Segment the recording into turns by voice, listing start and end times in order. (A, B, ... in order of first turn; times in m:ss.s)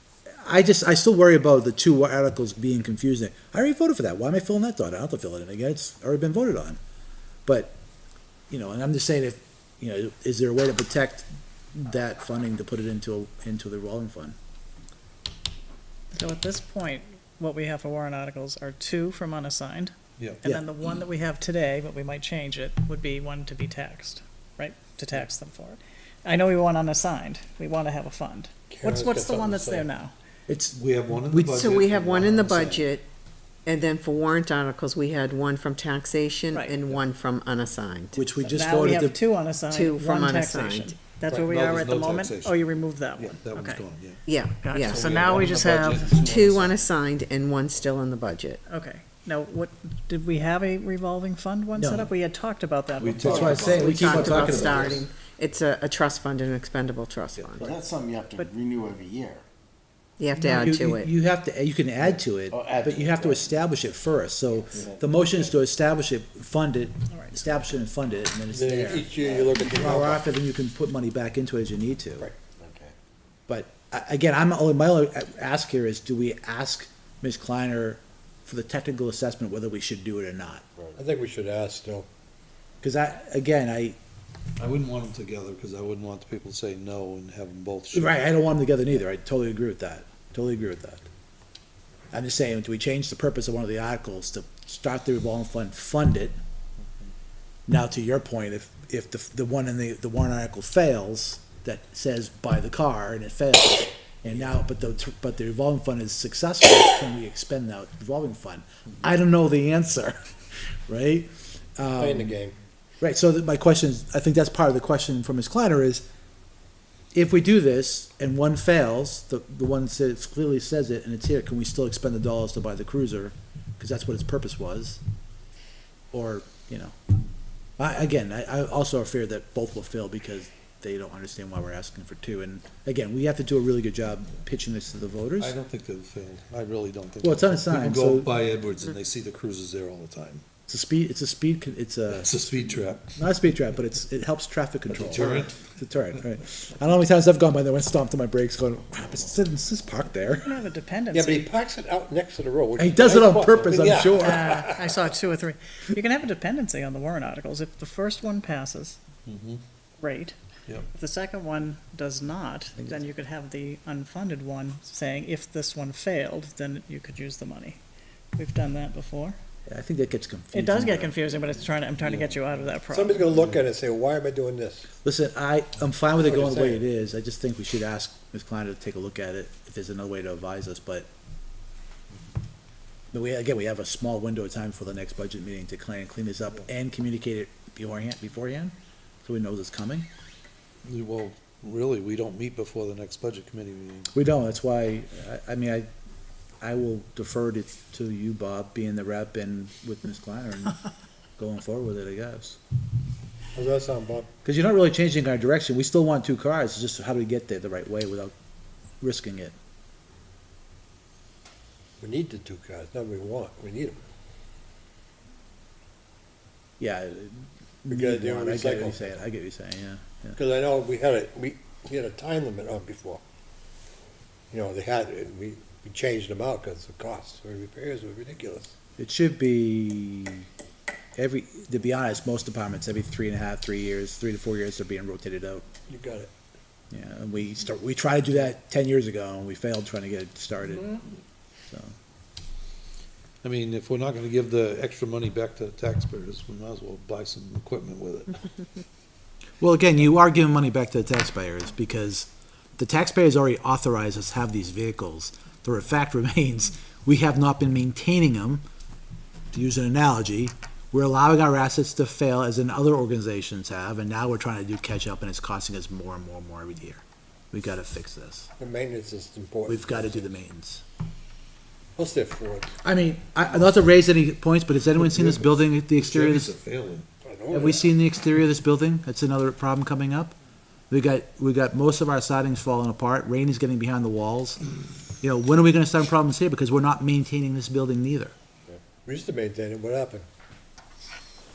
0:00.4-0:06.8 A
0:07.4-0:07.7 A
0:08.5-0:14.4 A
0:16.1-0:30.1 B
0:28.7-0:29.9 C
0:30.5-0:31.7 A
0:30.7-0:32.8 D
0:31.6-0:33.0 E
0:33.6-0:38.2 E
0:38.1-0:39.2 A
0:38.4-0:43.8 B
0:39.7-0:40.9 E
0:41.3-0:46.8 D
0:44.2-0:45.2 E
0:44.6-0:46.2 B
0:46.2-0:48.6 E
0:48.7-0:53.8 B
0:51.8-0:52.1 A
0:53.0-0:55.0 D
0:53.2-0:55.0 A
0:53.7-0:57.7 E
0:57.6-0:59.4 F
1:00.2-1:01.1 E
1:00.3-1:12.3 A
1:02.0-1:03.6 F
1:04.7-1:05.5 F
1:07.1-1:07.4 B
1:08.5-1:10.2 C
1:09.2-1:09.6 F
1:12.5-1:12.9 F
1:13.5-1:20.6 A
1:21.0-1:22.1 C
1:22.8-1:24.0 A
1:24.6-1:28.2 D
1:27.9-1:31.0 A
1:32.1-1:36.4 A
1:37.7-1:50.2 A
1:50.7-1:52.4 A
1:52.0-1:52.6 C
1:53.0-1:56.0 A
1:57.1-2:05.0 A
2:06.1-2:07.0 A
2:07.8-2:15.5 A
2:15.4-2:20.4 D
2:17.2-2:18.3 A
2:20.7-2:22.3 A
2:22.1-2:23.1 D
2:23.2-2:30.5 A
2:24.9-2:25.7 D
2:30.4-2:31.5 B
2:31.1-2:34.8 C
2:32.8-2:34.6 A
2:34.2-2:39.0 B
2:39.2-2:39.6 D
2:40.0-2:40.4 B
2:40.9-2:47.8 B
2:48.4-2:49.4 B
2:49.7-2:51.1 A
2:50.5-2:53.3 B
2:52.9-2:54.9 C
2:55.0-3:01.1 A
2:56.2-2:56.8 C
3:03.1-3:10.1 A
3:10.8-3:14.1 D
3:14.1-3:15.9 A
3:16.6-3:20.8 A
3:21.4-3:22.6 A
3:23.5-3:24.3 C
3:24.4-3:28.3 A
3:29.0-3:29.5 A
3:32.0-3:34.0 C
3:36.8-3:40.4 A
3:37.9-3:39.0 C
3:40.4-3:43.2 C
3:44.5-3:48.7 C
3:49.0-3:50.5 A
3:51.2-3:55.7 A
3:55.9-3:56.3 C
3:56.9-4:01.0 A
4:03.4-4:08.4 D
4:09.6-4:18.6 A
4:19.5-4:28.5 A
4:28.6-4:30.3 C
4:29.7-4:30.8 A
4:32.0-4:32.7 C
4:32.8-4:36.5 A
4:35.0-4:37.1 D
4:37.2-4:37.9 C
4:37.5-4:40.3 A
4:40.9-4:44.6 A
4:45.2-4:48.3 A
4:49.0-4:50.2 C